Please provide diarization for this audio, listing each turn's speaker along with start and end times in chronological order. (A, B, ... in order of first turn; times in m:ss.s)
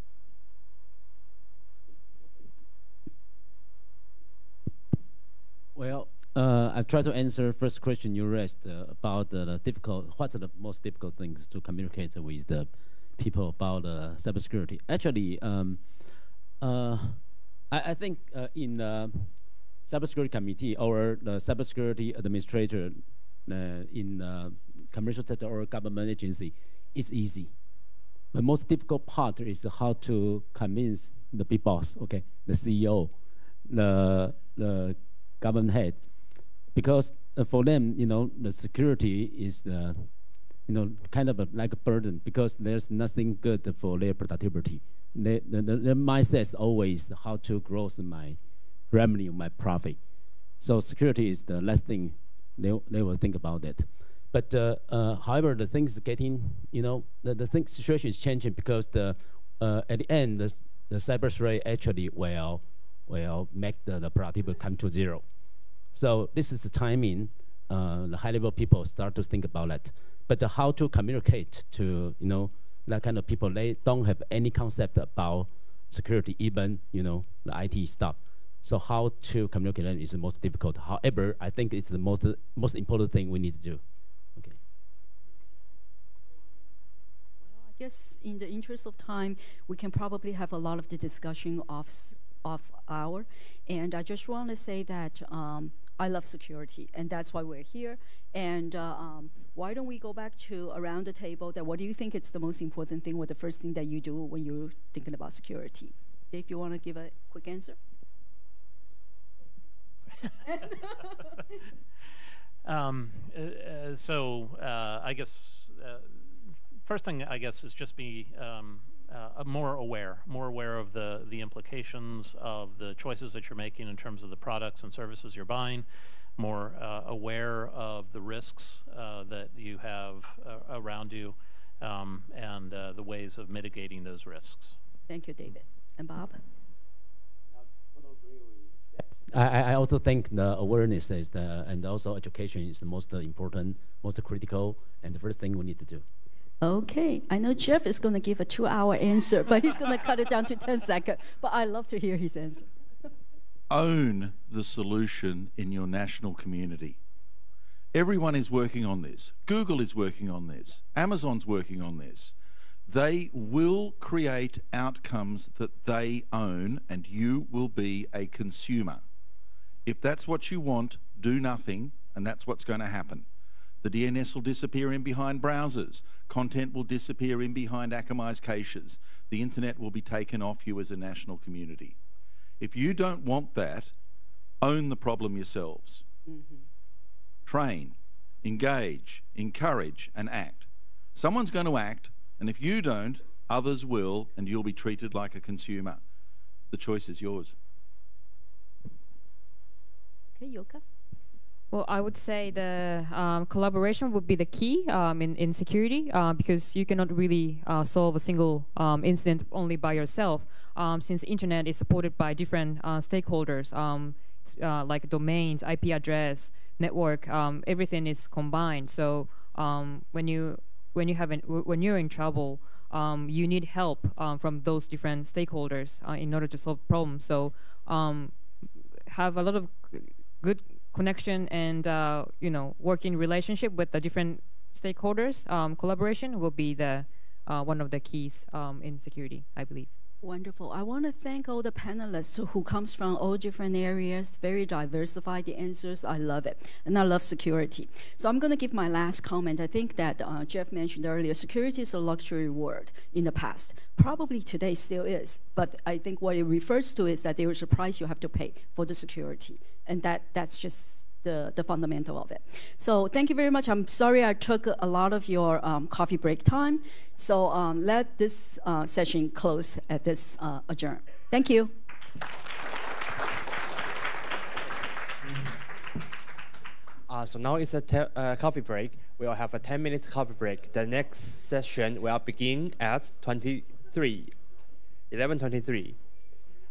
0:05.7-0:16.0 A
0:16.6-0:27.5 A
0:28.3-0:33.1 A
0:33.6-0:36.0 A
0:36.7-0:40.1 A
0:40.7-0:48.4 A
0:48.9-0:50.0 A
0:50.6-1:05.2 A
1:05.9-1:23.8 A
1:27.4-1:47.8 B
1:52.6-1:56.3 C
1:56.8-2:14.8 C
2:15.1-2:16.4 B
2:19.3-2:26.0 A
2:26.6-2:32.7 B
2:33.7-2:37.0 D
2:37.9-2:42.3 D
2:42.9-2:49.0 D
2:49.8-2:53.2 D
2:53.8-3:02.0 D
3:02.6-3:03.9 D
3:04.6-3:06.0 D
3:06.3-3:06.6 B
3:07.4-3:16.0 D
3:16.7-3:17.5 D
3:20.4-3:20.8 B
3:21.7-3:48.3 E
3:49.1-3:59.9 E
4:00.2-4:31.7 B
4:37.1-4:44.3 F
4:45.1-4:46.0 F